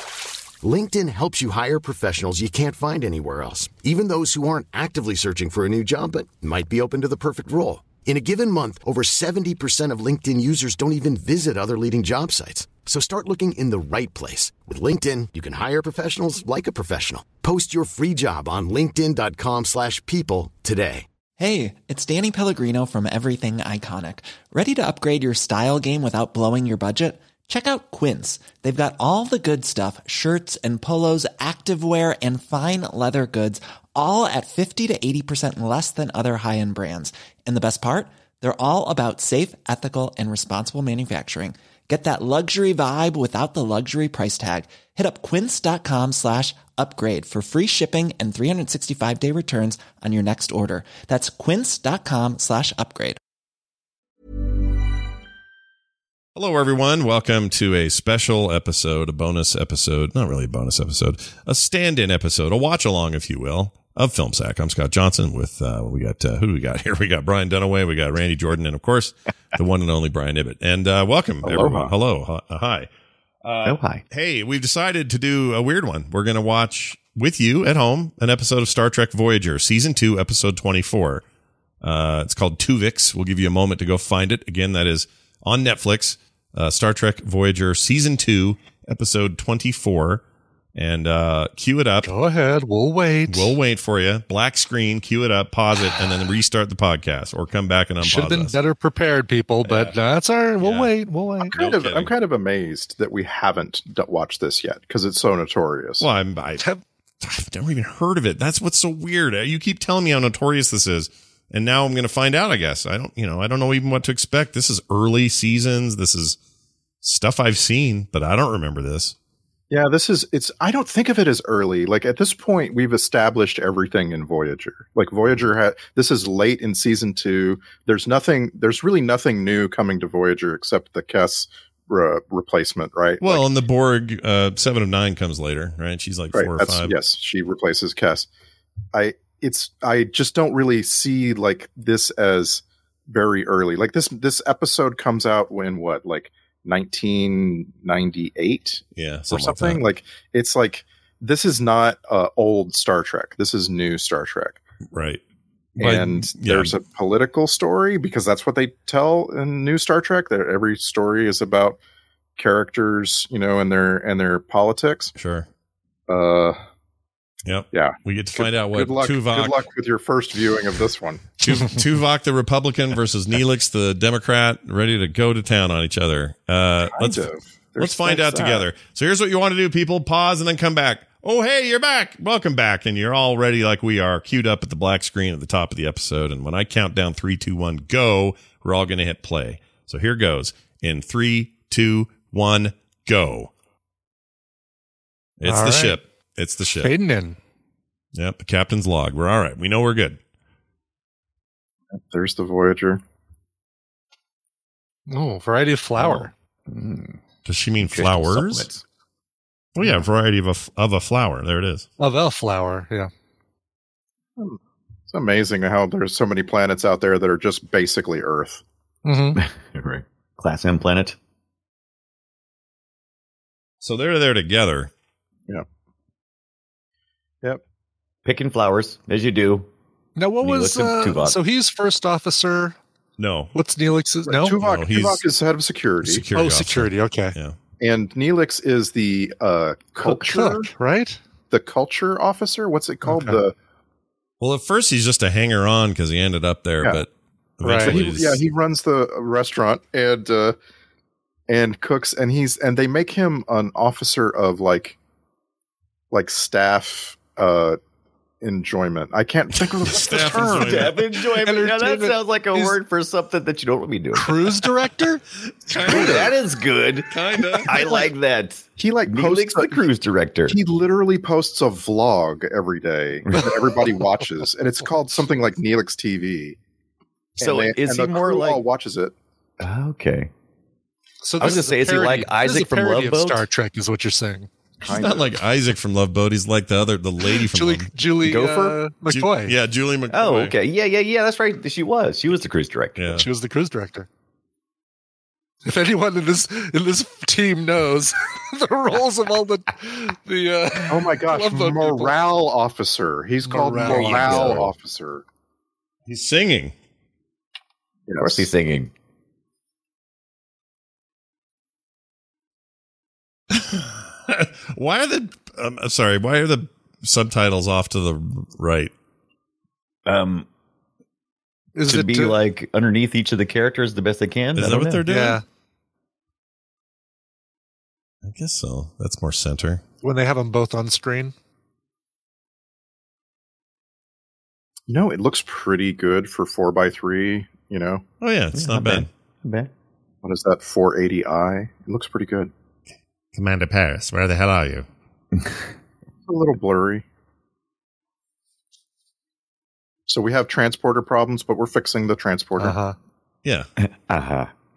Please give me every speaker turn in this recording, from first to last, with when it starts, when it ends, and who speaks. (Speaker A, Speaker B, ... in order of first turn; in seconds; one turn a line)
Speaker A: 0.6-21.1
Speaker B: 21.4-53.2
Speaker C: 56.4-72.9
Speaker D: 71.4-71.9
Speaker C: 73.4-81.2
Speaker E: 73.7-74.0
Speaker C: 81.8-90.2
Speaker C: 90.8-92.1
Speaker F: 92.0-93.5
Speaker C: 93.3-98.6
Speaker F: 98.0-101.5
Speaker C: 99.6-99.9
Speaker C: 100.6-100.9
Speaker C: 101.4-102.1
Speaker D: 101.5-106.1
Speaker C: 106.0-106.7
Speaker C: 107.2-116.4
Speaker C: 117.0-119.2
Speaker D: 119.7-133.5
Speaker C: 133.2-137.0
Speaker D: 136.3-138.3
Speaker D: 138.9-154.6
Speaker C: 149.0-149.8
Speaker C: 154.9-155.2
Speaker D: 155.8-161.8
Speaker C: 155.8-156.7
Speaker D: 162.4-165.1
Speaker C: 165.2-165.5
Speaker D: 166.1-166.6
Speaker C: 167.5-169.7
Speaker D: 167.7-171.4
Speaker C: 171.4-193.5
Speaker D: 176.9-178.7
Speaker C: 195.4-196.9
Speaker F: 195.4-196.0
Speaker F: 196.8-197.4
Speaker C: 198.1-200.2
Speaker D: 201.9-203.0
Speaker F: 205.1-206.3
Speaker E: 206.0-207.2
Speaker C: 207.4-208.7
Speaker E: 207.8-208.8
Speaker C: 209.8-211.9
Speaker F: 212.0-213.1
Speaker D: 215.1-218.6
Speaker F: 219.0-219.4
Speaker E: 219.4-221.2
Speaker C: 223.8-224.9
Speaker E: 228.2-229.7
Speaker F: 230.2-232.8
Speaker E: 230.4-231.4
Speaker C: 233.2-233.5
Speaker F: 233.5-234.6
Speaker D: 234.3-236.3
Speaker C: 234.6-235.2
Speaker C: 236.0-237.6
Speaker F: 236.3-237.4
Speaker D: 237.8-240.7
Speaker F: 240.0-241.2
Speaker D: 241.5-243.5
Speaker F: 243.1-243.4
Speaker C: 244.4-248.4
Speaker F: 247.6-247.9
Speaker D: 247.7-250.6
Speaker D: 251.5-255.0
Speaker D: 256.1-257.8
Speaker D: 258.4-261.0
Speaker C: 259.8-261.1
Speaker E: 260.6-264.5
Speaker F: 261.4-262.8
Speaker F: 264.1-265.2
Speaker C: 265.6-266.4
Speaker E: 265.7-270.6
Speaker C: 267.1-268.0
Speaker D: 268.8-269.9
Speaker D: 270.5-276.6
Speaker D: 277.4-279.1
Speaker E: 277.4-278.6
Speaker E: 279.6-280.3
Speaker F: 281.2-284.5
Speaker E: 281.4-283.5
Speaker C: 284.8-287.9
Speaker D: 284.9-285.3
Speaker F: 287.4-289.6
Speaker E: 288.2-288.8
Speaker C: 289.1-290.6
Speaker E: 290.1-293.2
Speaker C: 293.0-293.3
Speaker F: 293.1-294.1
Speaker F: 295.6-302.2
Speaker D: 300.9-305.2
Speaker F: 303.4-304.6
Speaker E: 303.9-304.7
Speaker C: 306.1-306.7
Speaker D: 308.1-308.5
Speaker E: 308.2-308.9
Speaker C: 313.5-318.9
Speaker E: 320.1-320.5
Speaker F: 321.8-322.4
Speaker E: 321.8-325.0
Speaker C: 324.6-325.4
Speaker F: 325.1-325.4
Speaker C: 328.2-329.8
Speaker F: 330.0-331.3
Speaker D: 334.9-338.0
Speaker C: 338.2-339.1
Speaker E: 338.5-339.7
Speaker D: 340.2-342.5
Speaker C: 343.3-344.9
Speaker D: 346.3-347.0
Speaker D: 350.1-352.8
Speaker F: 352.6-353.0
Speaker E: 353.8-354.5